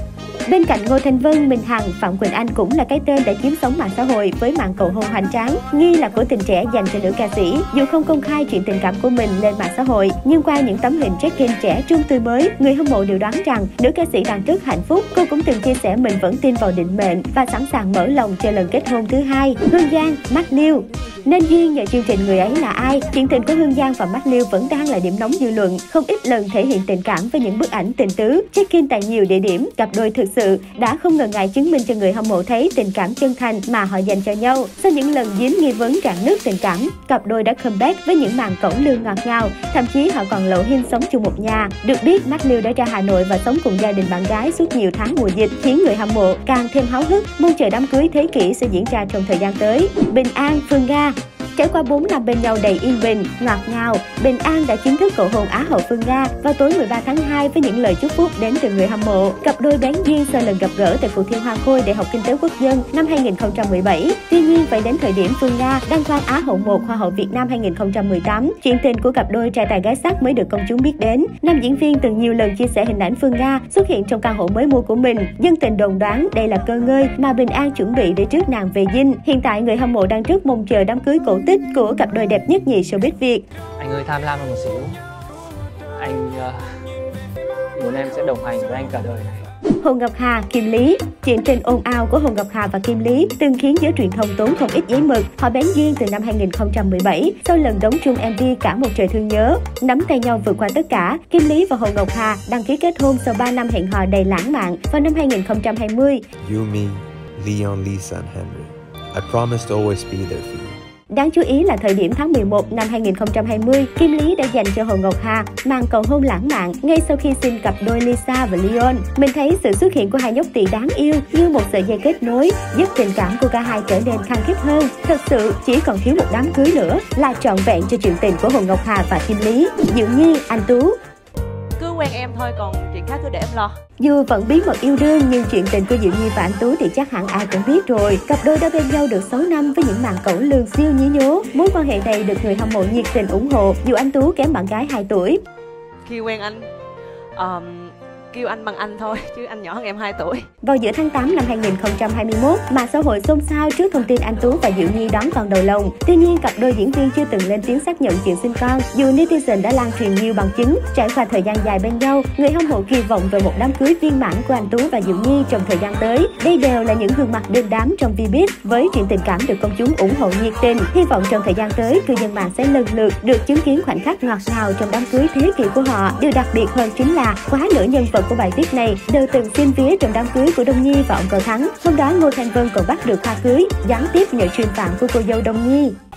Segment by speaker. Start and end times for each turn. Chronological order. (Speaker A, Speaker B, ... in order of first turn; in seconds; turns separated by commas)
Speaker A: 0.5-83.5, Speaker B: 83.8-85.0, Speaker B: 86.0-86.6, Speaker B: 87.8-89.4, Speaker A: 89.8-106.2, Speaker C: 106.4-110.8, Speaker A: 111.1-130.9, Speaker D: 131.8-133.8, Speaker A: 134.0-145.4, Speaker D: 146.1-146.6, Speaker D: 147.3-150.4, Speaker A: 150.6-185.9